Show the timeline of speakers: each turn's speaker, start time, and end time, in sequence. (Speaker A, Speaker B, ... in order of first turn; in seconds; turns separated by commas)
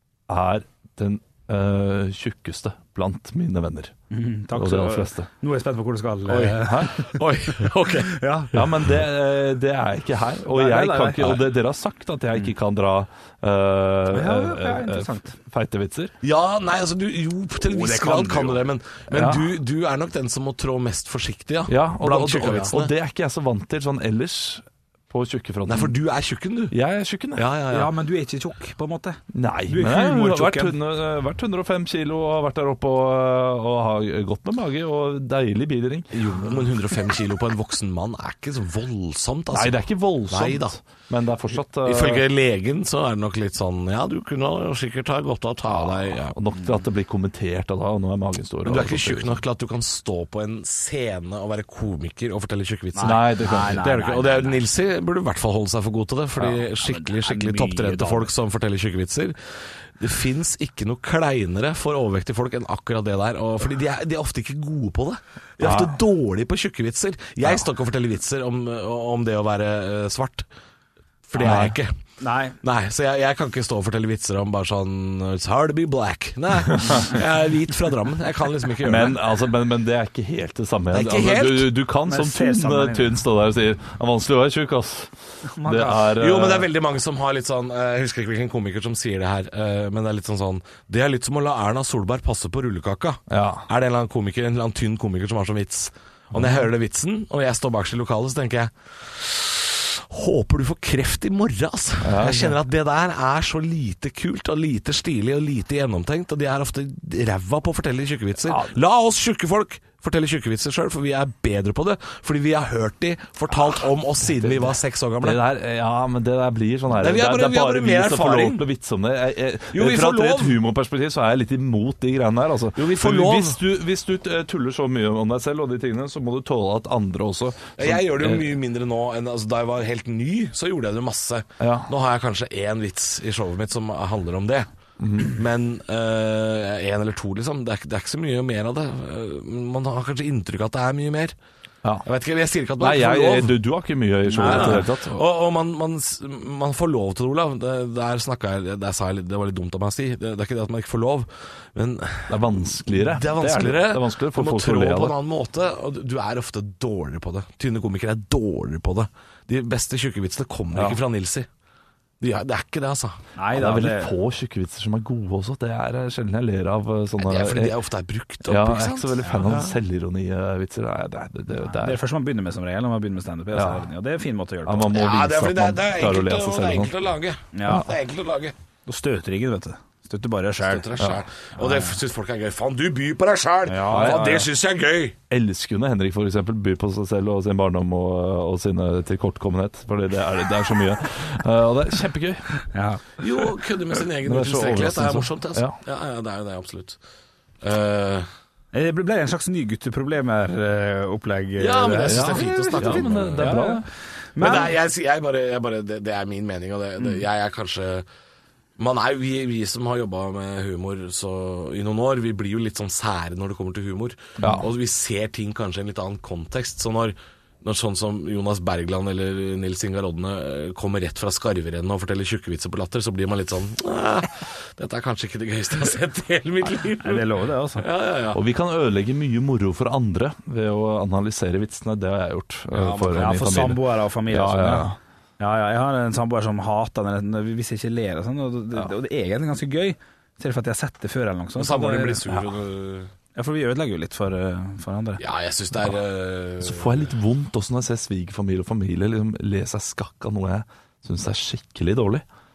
Speaker A: 0.3-3.9, Speaker B: 4.1-8.5, Speaker A: 4.5-5.3, Speaker C: 6.3-8.7, Speaker A: 6.6-6.9, Speaker A: 8.5-16.1, Speaker B: 10.5-11.4, Speaker B: 14.1-15.3, Speaker C: 16.2-22.9, Speaker B: 17.6-18.6, Speaker A: 19.1-19.5, Speaker A: 21.7-25.9, Speaker C: 25.6-26.7, Speaker A: 26.7-27.5, Speaker C: 27.3-27.9, Speaker B: 27.7-30.7, Speaker A: 29.3-36.4, Speaker C: 36.1-40.8, Speaker A: 39.5-42.2, Speaker C: 41.8-46.4, Speaker A: 46.3-49.4, Speaker C: 48.6-59.4, Speaker B: 52.9-54.6, Speaker A: 53.0-53.9, Speaker B: 56.6-58.3, Speaker C: 59.9-70.5, Speaker A: 65.6-66.0, Speaker C: 71.3-71.9, Speaker A: 71.4-71.8, Speaker B: 72.2-72.6, Speaker C: 72.6-79.2, Speaker A: 76.7-77.1, Speaker A: 78.8-85.1, Speaker C: 80.9-81.7, Speaker B: 82.0-83.2, Speaker B: 85.5-86.1, Speaker A: 85.6-86.7, Speaker C: 86.0-115.4, Speaker A: 93.3-93.7, Speaker A: 96.3-96.7, Speaker A: 102.0-102.6, Speaker A: 108.5-108.7, Speaker A: 114.4-128.5, Speaker C: 116.9-118.6, Speaker C: 119.7-120.6, Speaker C: 122.8-123.6, Speaker C: 127.8-134.7, Speaker A: 131.6-131.9, Speaker A: 135.0-135.4, Speaker C: 135.2-141.3, Speaker C: 142.0-143.6, Speaker A: 142.8-145.2, Speaker B: 144.3-144.8, Speaker C: 144.4-161.5, Speaker A: 152.3-155.2, Speaker A: 160.7-161.0, Speaker C: 162.2-163.2, Speaker B: 163.3-164.1, Speaker A: 163.5-167.8, Speaker C: 167.2-169.6, Speaker A: 168.4-172.0, Speaker B: 169.2-169.7, Speaker B: 171.6-174.9, Speaker A: 173.5-173.8, Speaker A: 174.7-176.9, Speaker C: 174.9-178.5, Speaker B: 177.5-177.9, Speaker B: 178.8-180.9, Speaker C: 180.6-185.2, Speaker B: 181.6-181.9, Speaker B: 183.7-184.5, Speaker A: 183.9-184.4, Speaker A: 185.3-192.6, Speaker B: 192.7-193.0, Speaker C: 193.2-197.0, Speaker A: 194.2-195.8, Speaker C: 197.6-198.3, Speaker B: 198.7-203.8, Speaker C: 201.6-203.6, Speaker A: 202.0-203.8, Speaker B: 204.3-204.7, Speaker C: 204.4-208.1, Speaker C: 208.8-228.4, Speaker A: 214.4-214.7, Speaker B: 227.0-227.8, Speaker A: 228.3-234.9, Speaker C: 232.7-233.3, Speaker B: 233.1-242.2, Speaker C: 241.6-243.1, Speaker B: 243.3-245.2, Speaker C: 245.2-247.1, Speaker A: 246.6-252.2